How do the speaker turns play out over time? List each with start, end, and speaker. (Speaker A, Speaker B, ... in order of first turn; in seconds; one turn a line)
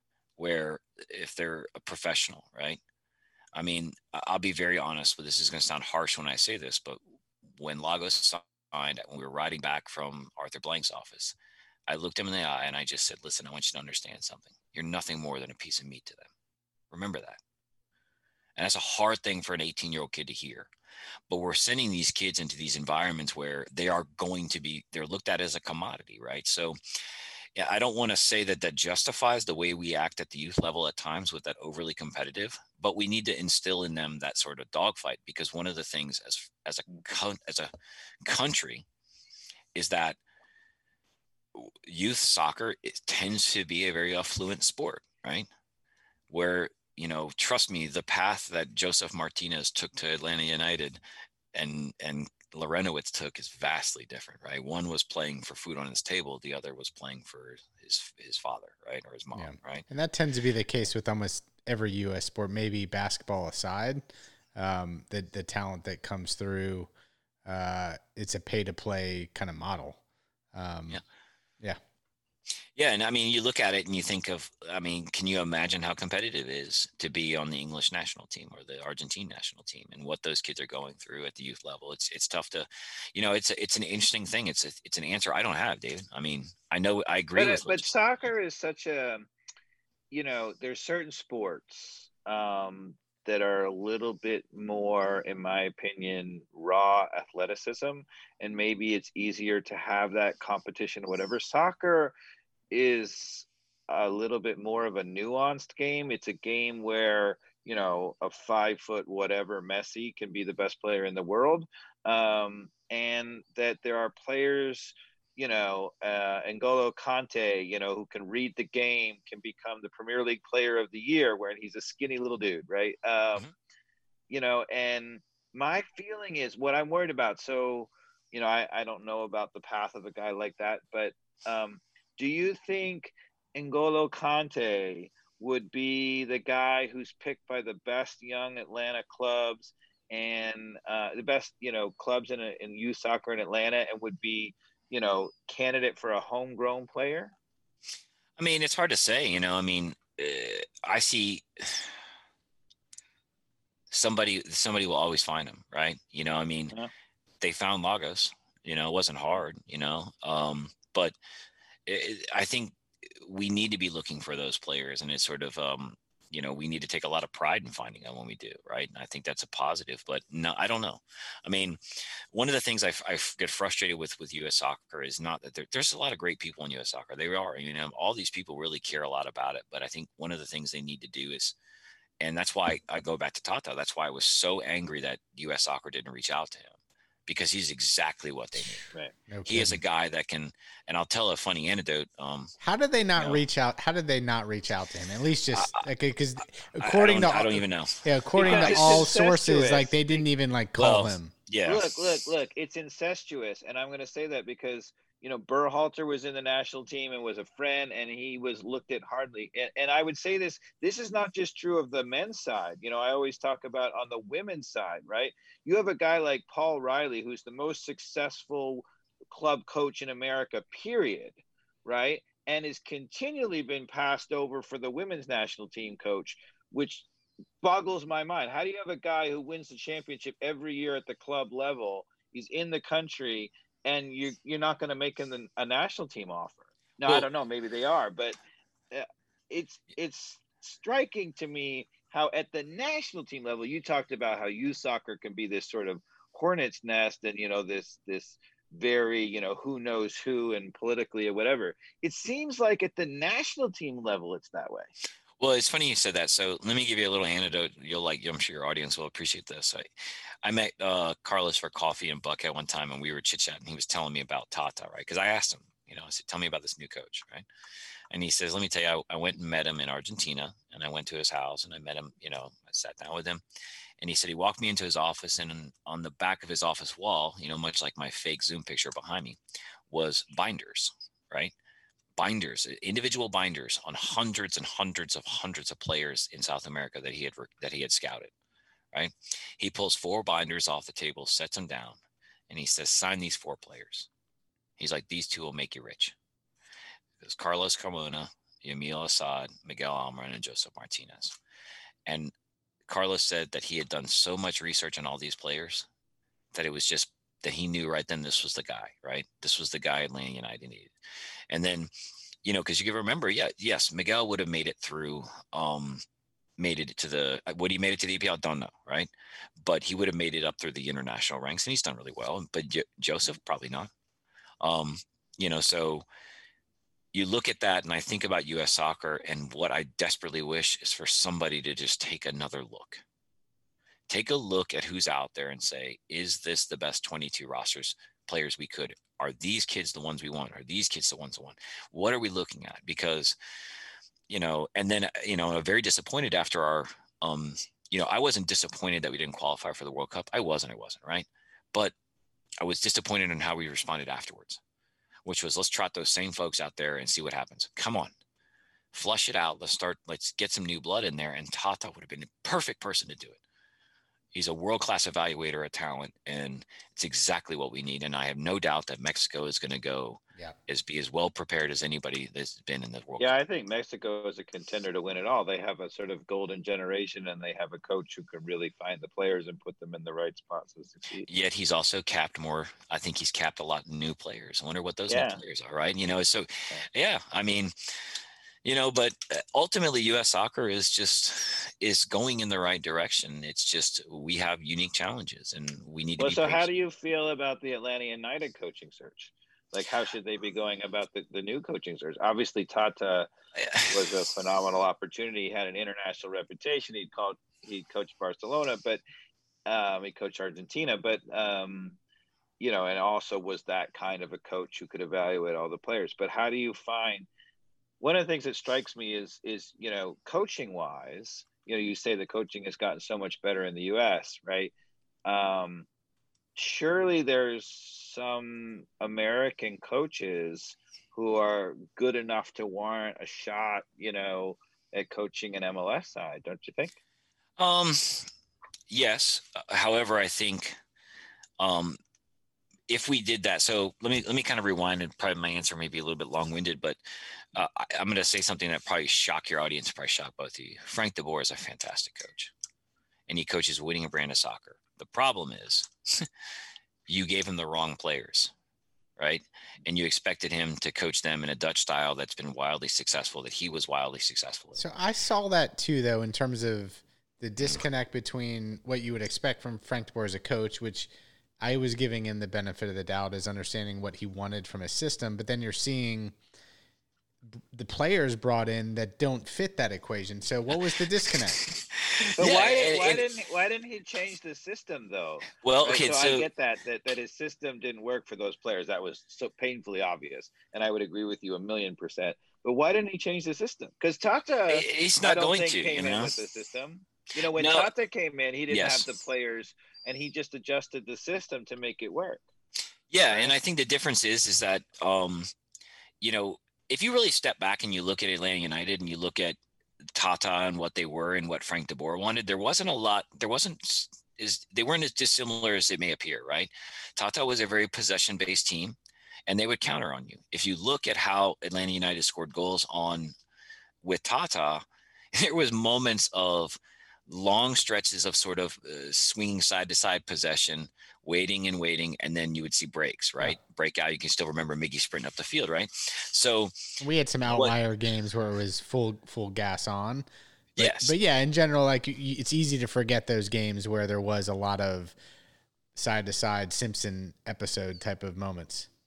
Speaker A: 0.4-2.8
Speaker A: 3.5-11.4
Speaker A: 11.9-16.3
Speaker A: 16.9-17.4
Speaker A: 18.6-20.7
Speaker A: 21.3-26.8
Speaker A: 27.6-37.7
Speaker A: 38.2-38.9
Speaker A: 39.8-40.2
Speaker A: 41.5-45.5
Speaker A: 46.3-51.0
Speaker A: 51.5-59.9
Speaker B: 59.4-66.9
Speaker B: 67.5-70.0
Speaker B: 70.5-71.0
Speaker A: 72.8-87.9
Speaker C: 87.4-89.3
Speaker C: 90.1-102.2
Speaker C: 102.7-123.5
Speaker C: 124.3-147.3
Speaker A: 148.4-151.9
Speaker A: 153.9-156.8
Speaker A: 157.4-161.2
Speaker A: 161.9-181.6
Speaker A: 182.2-188.8
Speaker B: 189.3-189.8
Speaker A: 189.4-192.5
Speaker B: 192.6-201.3
Speaker A: 195.5-195.9
Speaker A: 196.8-199.0
Speaker C: 198.4-200.3
Speaker A: 200.8-202.0
Speaker C: 201.7-227.1
Speaker C: 227.6-238.4
Speaker C: 238.9-254.9
Speaker A: 255.4-259.9
Speaker A: 260.4-267.5
Speaker A: 268.1-273.4
Speaker A: 274.0-279.4
Speaker A: 279.9-281.5
Speaker A: 282.2-288.3
Speaker A: 288.9-294.1
Speaker A: 294.8-296.2
Speaker A: 297.2-301.4
Speaker A: 302.1-302.3
Speaker A: 302.9-305.9
Speaker A: 306.5-310.9
Speaker A: 311.5-311.9
Speaker A: 312.4-316.0
Speaker A: 316.6-323.9
Speaker A: 324.6-326.1
Speaker A: 327.1-333.0
Speaker A: 334.1-343.4
Speaker A: 344.3-351.9
Speaker A: 352.6-354.6
Speaker A: 355.2-358.1
Speaker A: 358.9-363.4
Speaker A: 364.3-373.4
Speaker C: 373.2-381.3
Speaker A: 381.3-387.8
Speaker C: 385.1-385.4
Speaker A: 388.6-396.7
Speaker C: 396.2-403.3
Speaker A: 403.6-404.2
Speaker C: 403.9-409.0
Speaker C: 409.7-412.0
Speaker C: 412.6-417.3
Speaker C: 418.0-424.7
Speaker C: 425.2-425.9
Speaker C: 426.6-437.0
Speaker A: 437.6-438.3
Speaker A: 438.9-440.8
Speaker A: 441.6-442.0
Speaker A: 442.9-447.0
Speaker A: 447.5-452.5
Speaker A: 453.3-456.3
Speaker A: 457.1-458.5
Speaker A: 459.2-464.8
Speaker B: 464.8-471.1
Speaker B: 471.6-476.4
Speaker B: 477.5-481.7
Speaker A: 481.3-483.3
Speaker C: 482.4-502.4
Speaker A: 485.6-486.5
Speaker A: 494.7-496.4
Speaker A: 497.5-497.9
Speaker A: 498.7-499.1
Speaker A: 503.1-505.5
Speaker C: 503.3-503.5
Speaker A: 506.2-523.4
Speaker A: 524.0-536.7
Speaker B: 537.0-540.3
Speaker A: 537.5-537.8
Speaker A: 540.8-541.1
Speaker B: 540.8-545.1
Speaker B: 546.0-548.9